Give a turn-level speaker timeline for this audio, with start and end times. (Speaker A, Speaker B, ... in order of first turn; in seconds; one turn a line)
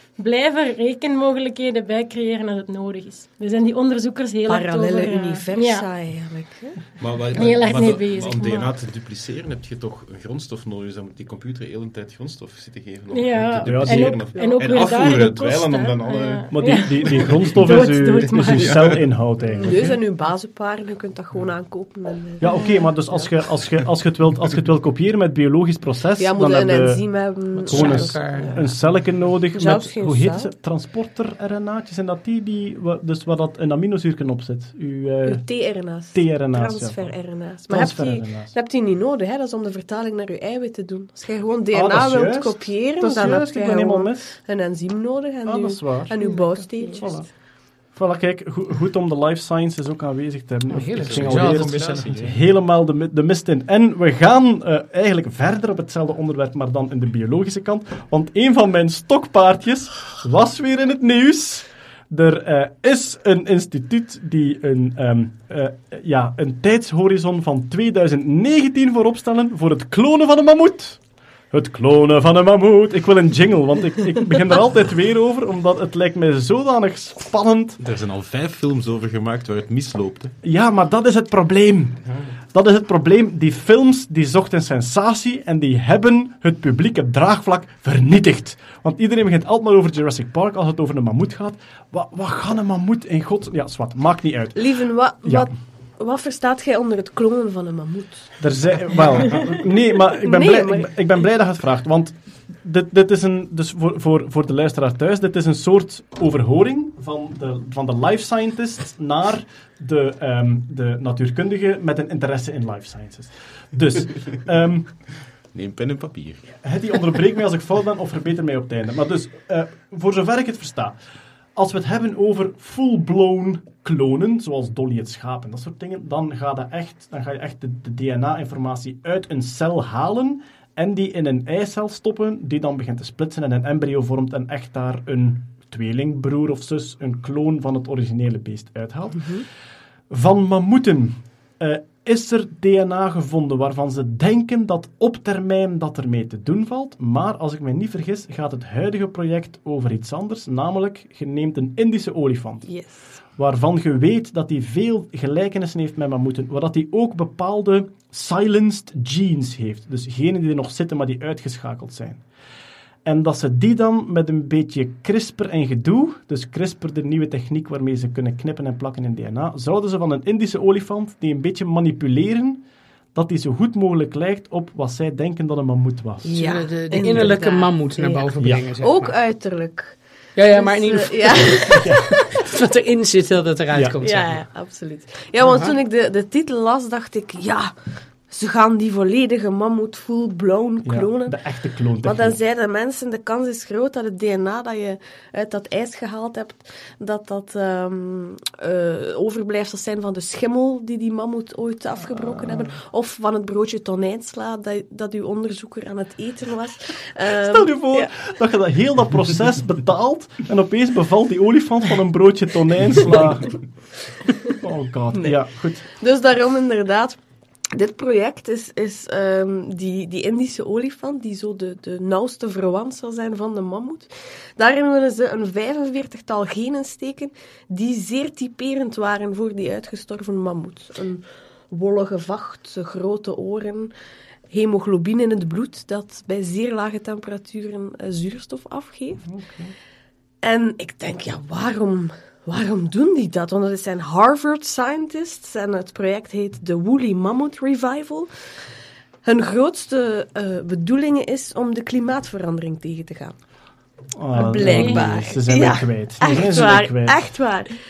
Speaker A: 0.2-5.9
Speaker B: 4.5-6.9
Speaker C: 7.0-17.5
Speaker A: 7.3-8.7
Speaker A: 13.1-19.0
Speaker D: 13.6-14.2
Speaker D: 16.5-20.0
Speaker C: 18.6-19.1
Speaker B: 19.6-23.3
Speaker D: 22.4-27.1
Speaker A: 22.5-22.9
Speaker B: 26.2-30.5
Speaker E: 27.6-28.8
Speaker D: 27.7-35.5
Speaker B: 35.3-47.3
Speaker D: 36.1-38.5
Speaker D: 41.7-44.4
Speaker D: 45.5-46.2
Speaker A: 46.2-47.0
Speaker D: 47.0-77.8
Speaker E: 50.7-52.2
Speaker C: 51.0-52.5
Speaker C: 77.8-80.3
Speaker D: 80.4-82.0
Speaker D: 82.5-95.5
Speaker B: 94.5-98.4
Speaker D: 98.4-115.0
Speaker B: 100.2-100.9
Speaker C: 115.5-116.6
Speaker D: 116.6-121.0
Speaker D: 121.5-139.5
Speaker B: 139.2-139.4
Speaker D: 140.1-152.7
Speaker B: 152.7-153.1
Speaker D: 153.4-162.2
Speaker D: 163.1-172.6
Speaker D: 173.1-176.4
Speaker B: 176.3-178.3
Speaker E: 176.3-179.2
Speaker D: 178.4-178.7
Speaker B: 178.8-180.0
Speaker E: 180.4-184.4
Speaker B: 180.5-182.1
Speaker D: 181.8-182.1
Speaker D: 183.7-184.0
Speaker B: 184.0-187.7
Speaker E: 185.4-185.7
Speaker B: 188.3-191.4
Speaker D: 190.8-192.4
Speaker B: 192.0-208.1
Speaker D: 202.3-202.7
Speaker D: 207.4-213.7
Speaker D: 214.6-215.9
Speaker B: 215.9-217.2
Speaker B: 217.7-233.9
Speaker B: 234.5-239.4
Speaker D: 239.3-239.7
Speaker B: 240.4-248.3
Speaker B: 249.2-253.4
Speaker D: 254.1-257.3
Speaker B: 254.3-257.7
Speaker A: 254.6-255.1